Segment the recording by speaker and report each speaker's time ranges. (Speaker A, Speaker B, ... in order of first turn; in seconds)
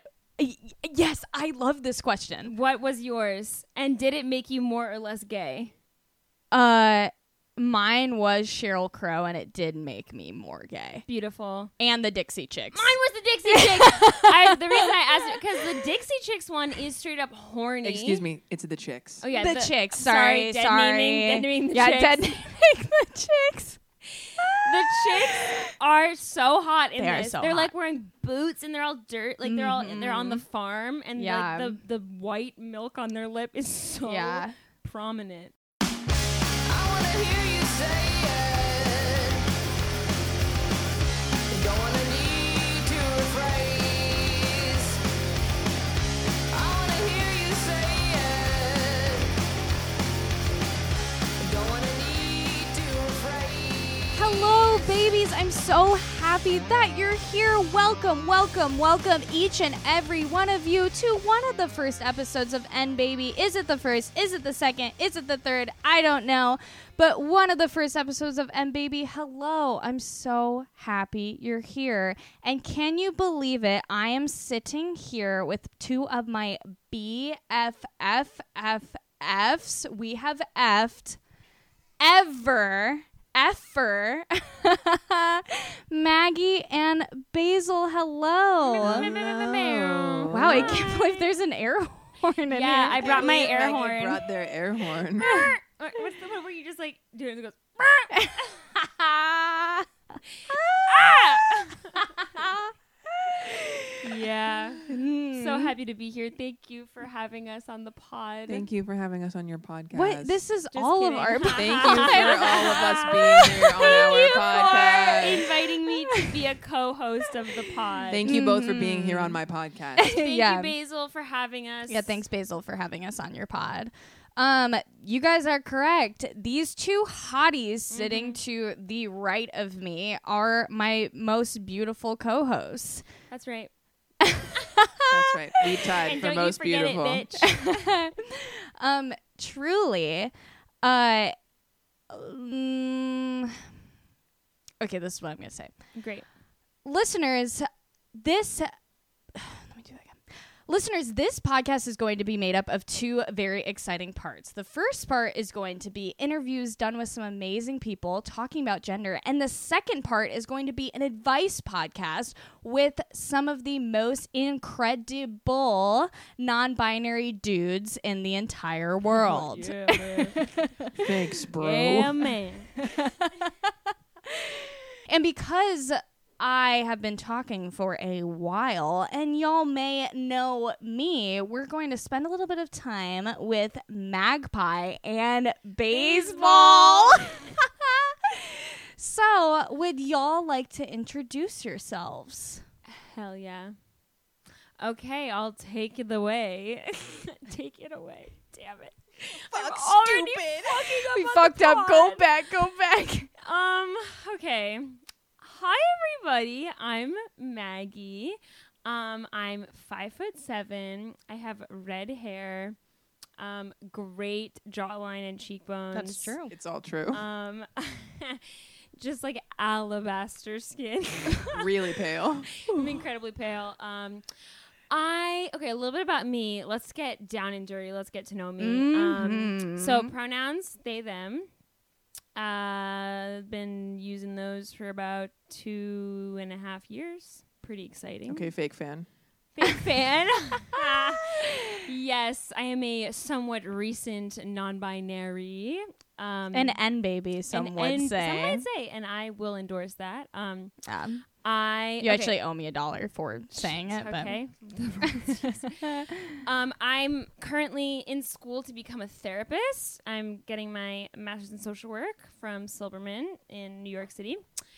Speaker A: 0.4-2.5, 6.5-11.1, 11.8-15.4, 19.3-23.8, 24.4-24.6, 25.2-25.6, 27.0-27.7, 29.4-30.4, 31.1-31.8, 34.0-34.5, 54.1-81.2, 82.0-89.1, 90.3-93.2, 95.2-95.5, 98.1-99.8, 100.5-101.2, 102.4-102.7, 103.2-103.9, 104.9-105.7, 109.9-115.5, 118.2-119.4, 120.0-120.7, 121.9-133.1, 134.2-135.2, 137.4-141.3, 142.1-143.6, 144.8-145.9, 146.8-148.7, 149.3-171.1, 172.8-173.3, 174.3-192.6, 199.5-203.3, 215.9-216.5, 222.7-223.0, 228.6-230.1, 246.5-248.6, 250.8-251.3, 252.0-254.4, 255.2-255.5
Speaker B: 2.4-5.7, 11.1-11.7, 12.7-18.2, 19.2-22.3, 24.6-35.5, 88.7-91.3, 92.5-94.2, 95.2-98.7, 100.8-102.4, 104.0-108.7, 110.7-118.2, 120.0-122.2, 127.9-128.4, 133.3-133.7, 136.0-137.9, 145.9-146.3, 169.1-170.4, 171.6-172.7, 185.9-187.4, 192.9-193.7, 194.8-202.2, 203.4-212.8, 213.4-216.3, 217.1-221.6, 222.7-224.2, 224.9-231.5, 232.3-238.5, 239.5-246.8, 247.5-250.7, 251.3-252.3, 253.6-264.4
Speaker C: 17.8-19.2, 88.8-90.9, 93.0-95.4, 108.5-110.4, 111.5-115.5, 118.1-120.1, 135.1-137.3, 171.0-172.3, 216.5-217.2, 221.5-222.5, 238.3-239.1
Speaker D: 36.6-39.5, 41.5-45.0, 46.5-49.4, 51.4-54.9